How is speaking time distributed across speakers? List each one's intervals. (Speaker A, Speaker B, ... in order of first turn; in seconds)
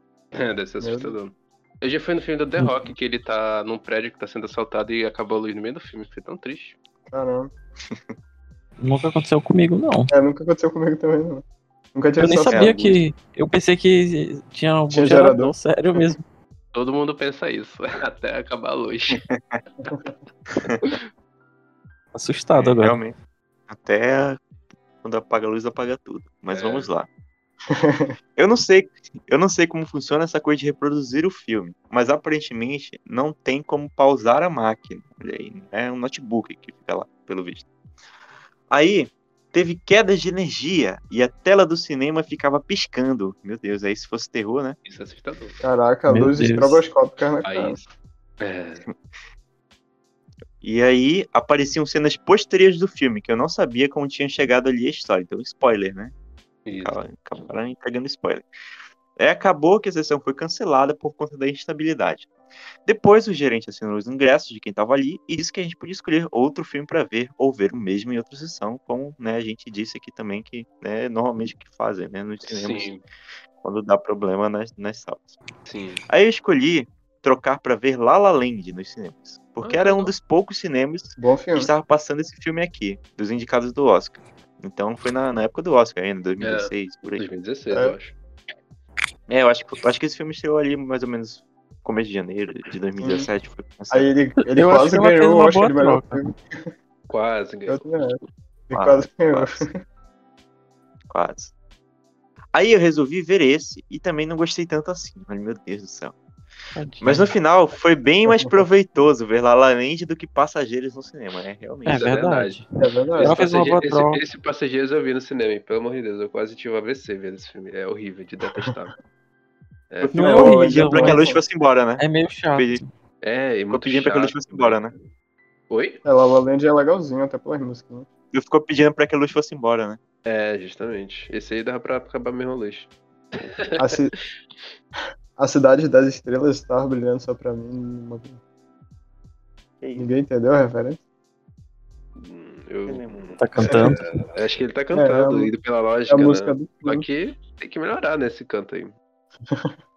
Speaker A: 0.3-6.8, 16.7-19.2, 26.5-26.9, 44.9-45.6, 47.4-47.8, 48.4-48.8, 56.6-57.0, 72.5-73.0, 75.7-76.0, 79.6-80.1, 86.4-88.1, 97.1-97.9, 111.9-112.6, 113.2-118.9, 123.2-124.9, 125.7-126.0, 130.2-133.9, 142.2-148.9
Speaker B: 0.8-1.1, 7.1-7.5, 10.1-11.4, 11.9-12.8, 14.9-15.5, 27.8-28.1, 45.6-47.8, 81.2-81.7, 93.0-93.3, 93.9-96.7, 97.7-99.7, 108.3-108.6, 112.8-113.4, 120.1-121.4, 126.0-128.1, 133.8-134.1, 135.4-138.4, 140.0-141.0, 143.6-143.9, 144.9-145.5, 146.1-147.1
Speaker C: 8.8-10.1, 12.2-16.2, 22.1-23.0, 46.1-46.8, 94.5-96.2, 106.7-107.3, 111.8-112.6, 113.2-114.2, 120.1-121.3, 122.0-122.8, 143.4-144.2
Speaker D: 12.5-12.9, 19.1-19.6, 20.5-20.9, 22.6-23.1, 23.7-24.4, 25.0-27.1, 28.4-37.6, 38.7-44.8, 50.6-56.1, 56.8-58.5, 59.1-62.3, 62.8-72.9, 73.6-75.4, 76.1-87.2, 89.3-94.1, 98.7-99.7, 101.1-101.5, 102.5-106.1, 107.0-112.1, 120.0-122.0, 122.5-122.8, 123.7-124.9, 128.3-130.0, 139.8-140.1, 142.9-143.4